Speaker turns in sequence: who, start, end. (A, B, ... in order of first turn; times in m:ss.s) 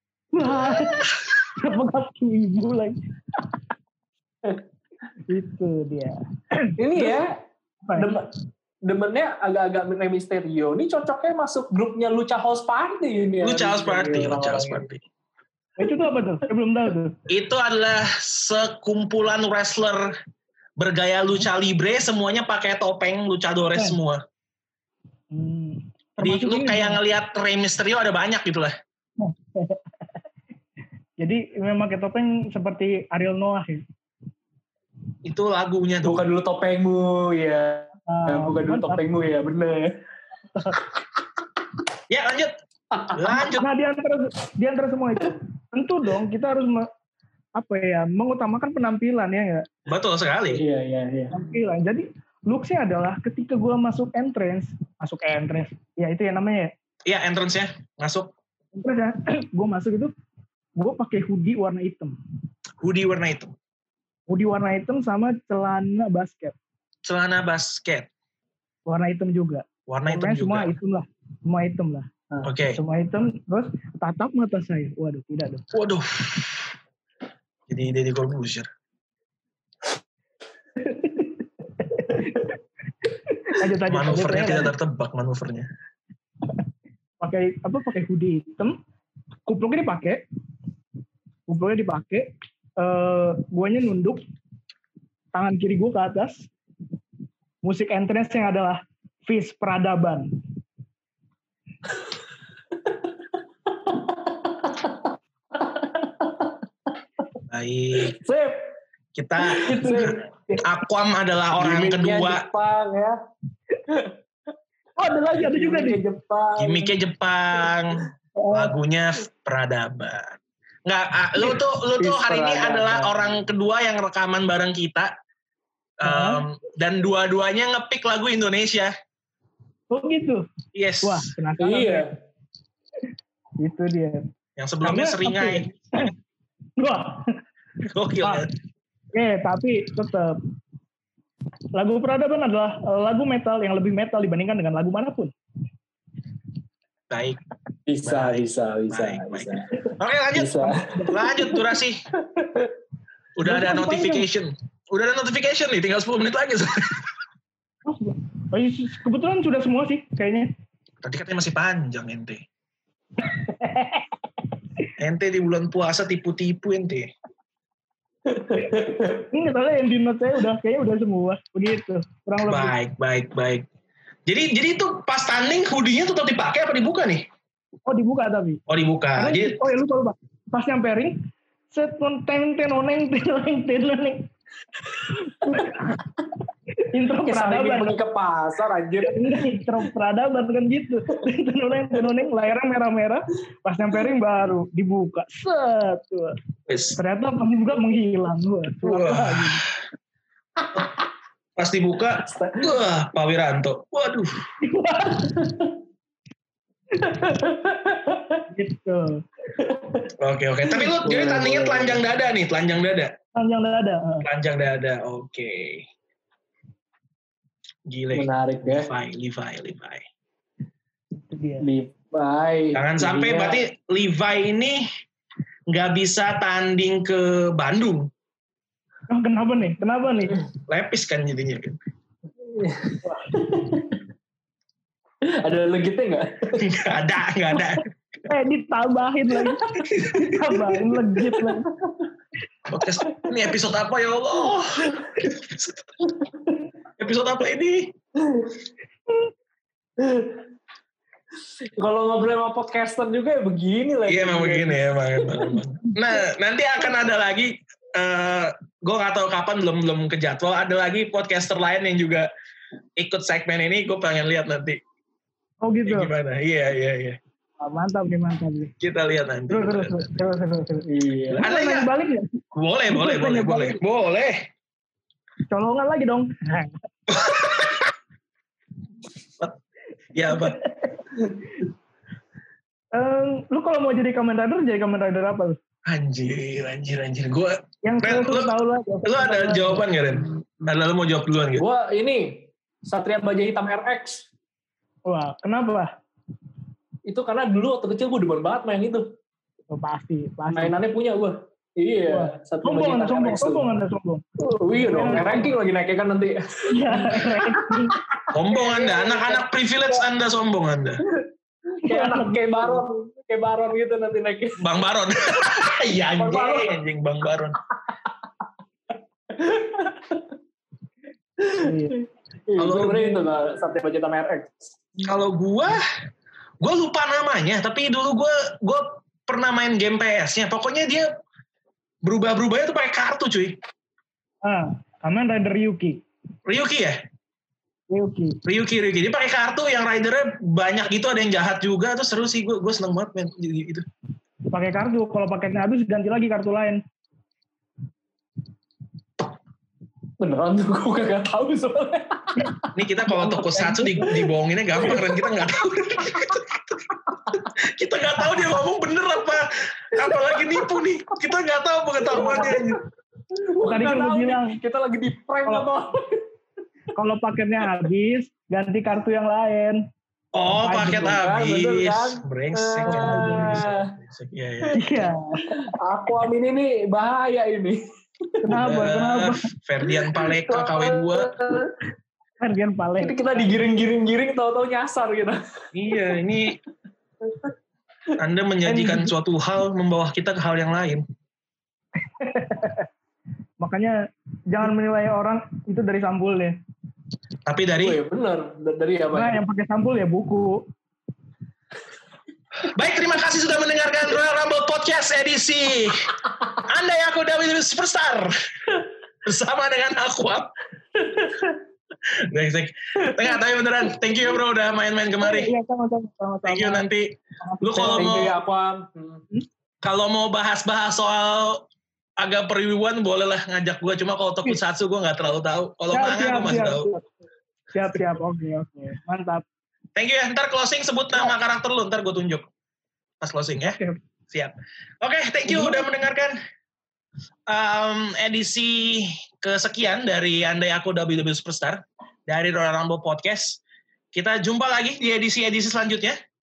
0:00.3-0:03.0 A
0:05.3-0:07.2 A
0:06.8-0:07.4 B
0:07.8-0:08.1 A
0:08.0-0:08.3 B
0:08.8-0:14.9 B
0:13.4-0:15.0 C
0:15.8-0:17.2 A
0:17.3-0:20.1 C
0:20.8-0:24.2 C
0:25.3-0:27.0 A
0:26.2-0:28.7 C
0:29.2-0:29.8 A
0:31.2-0:33.8 A
0:35.2-0:36.2 C
0:36.0-0:40.0 B
0:38.1-0:39.0 A
0:40.5-0:40.8 A
0:42.1-0:42.5 C
0:42.9-0:43.4 B
0:43.1-0:43.7 C
0:43.6-0:46.9 A
0:47.6-0:49.7 A
0:49.9-0:50.6 C
0:50.5-0:51.4 B
0:51.3-0:56.7 A
0:57.1-0:58.3 C
0:58.8-1:00.1 A
1:00.8-1:02.1 A
1:02.8-1:03.6 C
1:04.3-1:06.6 A
1:07.0-1:08.1 C
1:08.9-1:12.1 A
1:09.9-1:10.7 C
1:12.4-1:12.8 C
1:12.8-1:15.6 A
1:15.7-1:16.7 C
1:17.7-1:18.7 C
1:20.9-1:21.3 A
1:21.9-1:22.5 A
1:23.3-1:24.7 A
1:23.9-1:25.7 C
1:27.2-1:28.8 A
1:29.5-1:30.2 A
1:31.5-1:34.2 A
1:35.3-1:36.5 A
1:37.6-1:40.4 A
1:42.9-1:43.1 B
1:43.7-1:46.6 B
1:47.5-1:48.2 C
1:48.1-1:48.7 B
1:49.2-1:52.4 C
1:49.5-1:50.2 B
1:51.6-1:53.2 B
1:55.0-1:56.0 A
1:55.3-1:57.0 B
1:56.6-2:05.1 C
1:58.4-1:58.7 A
2:01.5-2:03.4 B
2:06.0-2:08.9 C
2:06.0-2:06.4 A
2:09.9-2:10.5 A
2:10.8-2:11.3 C
2:11.0-2:12.1 A
2:11.6-2:12.1 B
2:13.6-2:14.3 A
2:14.6-2:15.7 C
2:14.8-2:16.1 A
2:16.8-2:17.4 A
2:18.0-2:18.5 C
2:19.1-2:20.4 A
2:21.7-2:25.3 A
2:27.1-2:27.4 C
2:27.9-2:31.6 B
2:28.0-2:32.0 C
2:30.8-2:31.3 A
2:32.3-2:32.7 B
2:33.4-2:37.1 C
2:33.4-2:34.2 A
2:37.9-2:40.5 A
2:41.0-2:42.4 C
2:43.2-2:44.1 A
2:45.0-2:47.1 C
2:48.3-2:49.2 B
2:49.3-2:52.7 A
2:52.4-2:53.7 C
2:54.3-2:57.3 C
2:57.9-2:58.6 A
2:58.7-2:59.6 C
2:59.2-3:01.2 A
3:01.7-3:04.3 A
3:04.9-3:06.0 A
3:06.9-3:08.0 A
3:07.2-3:09.6 B
3:09.0-3:16.3 A
3:16.7-3:17.0 C
3:17.0-3:19.7 A
3:18.8-3:19.8 C
3:21.6-3:24.5 C
3:22.3-3:22.7 B
3:24.6-3:25.4 A
3:25.4-3:25.7 B
3:27.0-3:28.4 B
3:28.5-3:29.2 A
3:29.6-3:30.1 B
3:30.2-3:33.2 C
3:30.7-3:32.0 B
3:33.4-3:34.3 A
3:34.2-3:35.9 C
3:37.9-3:40.0 C
3:38.1-3:38.9 B
3:41.2-3:41.7 A
3:41.6-3:43.6 B
3:42.7-3:44.8 C
3:45.7-3:48.1 C
3:49.1-3:50.4 A
3:50.7-3:51.8 C
3:52.4-3:54.0 B
3:53.0-3:53.4 A
3:55.3-3:56.6 B
3:56.6-3:57.8 C
3:58.3-4:01.7 A
3:59.4-3:59.8 B
3:59.9-4:00.3 C
4:00.8-4:02.1 B
4:02.7-4:06.1 C
4:03.1-4:03.4 B
4:07.0-4:07.9 C
4:08.2-4:08.6 B
4:10.0-4:10.4 B
4:11.8-4:15.6 B
4:14.1-4:22.3 C
4:23.0-4:24.8 C
4:25.6-4:26.1 A
4:25.9-4:27.2 C
4:27.6-4:28.7 A
4:28.8-4:30.1 C
4:29.5-4:33.8 A
4:30.9-4:31.4 B
4:31.4-4:31.9 C
4:32.5-4:34.5 C
4:35.5-4:36.7 A
4:37.1-4:37.9 C
4:40.2-4:40.6 C
4:40.3-4:41.2 A
4:42.9-4:45.6 A
4:45.9-4:48.5 C
4:47.8-4:49.8 A
4:49.0-4:51.6 C
4:51.6-4:54.3 B
4:55.1-4:55.9 A
4:57.1-4:59.1 B
4:59.7-5:00.8 A
5:00.5-5:03.8 B
5:02.1-5:05.5 A
5:04.5-5:10.1 B
5:06.7-5:08.0 A
5:08.3-5:11.0 C
5:11.8-5:14.6 B
5:11.9-5:12.8 A
5:14.6-5:17.6 C
5:16.2-5:16.7 B
5:19.3-5:20.3 B
5:21.4-5:24.8 B
5:21.6-5:22.0 A
5:22.6-5:23.1 C
5:25.0-5:25.8 C
5:26.6-5:31.1 C
5:32.0-5:33.6 C
5:34.4-5:36.0 A
5:36.5-5:37.0 C
5:37.9-5:38.4 A
5:38.4-5:43.9 C
5:44.5-5:46.8 A
5:50.2-5:52.7 B
5:52.8-5:56.8 C
5:53.3-5:54.2 B
5:54.8-5:55.4 B
5:56.1-5:56.3 B
5:57.5-6:02.8 C
6:00.0-6:00.7 B
6:02.1-6:02.8 B
6:03.4-6:06.2 B
6:03.6-6:04.6 A
6:07.0-6:09.8 A
6:10.3-6:14.9 C
6:10.5-6:13.9 B
6:12.9-6:13.6 A
6:14.8-6:15.7 A
6:15.7-6:17.8 B
6:18.4-6:19.5 A
6:18.5-6:21.4 C
6:19.9-6:21.7 B
6:22.4-6:23.7 A
6:23.0-6:25.4 B
6:25.7-6:26.6 C
6:27.3-6:27.5 B
6:28.2-6:31.0 C
6:28.7-6:29.1 A
6:32.1-6:32.9 A
6:33.6-6:34.0 A
6:34.5-6:36.6 A
6:37.5-6:38.0 C
6:37.8-6:39.4 B
6:39.1-6:40.6 A
6:42.7-6:46.1 C
6:46.6-6:48.3 C
6:49.2-6:50.5 C
6:51.0-6:51.6 B
6:52.1-6:55.5 C
6:55.2-6:56.8 A
6:56.5-6:58.4 C
6:57.4-6:58.2 A
6:57.7-6:59.2 B
6:59.8-7:01.6 C
7:02.2-7:06.9 C
7:05.9-7:07.0 A
7:07.7-7:09.4 A
7:10.0-7:12.5 C
7:13.2-7:13.8 C
7:14.3-7:16.4 C
7:15.5-7:15.8 A
7:17.5-7:23.6 C
7:24.1-7:26.2 C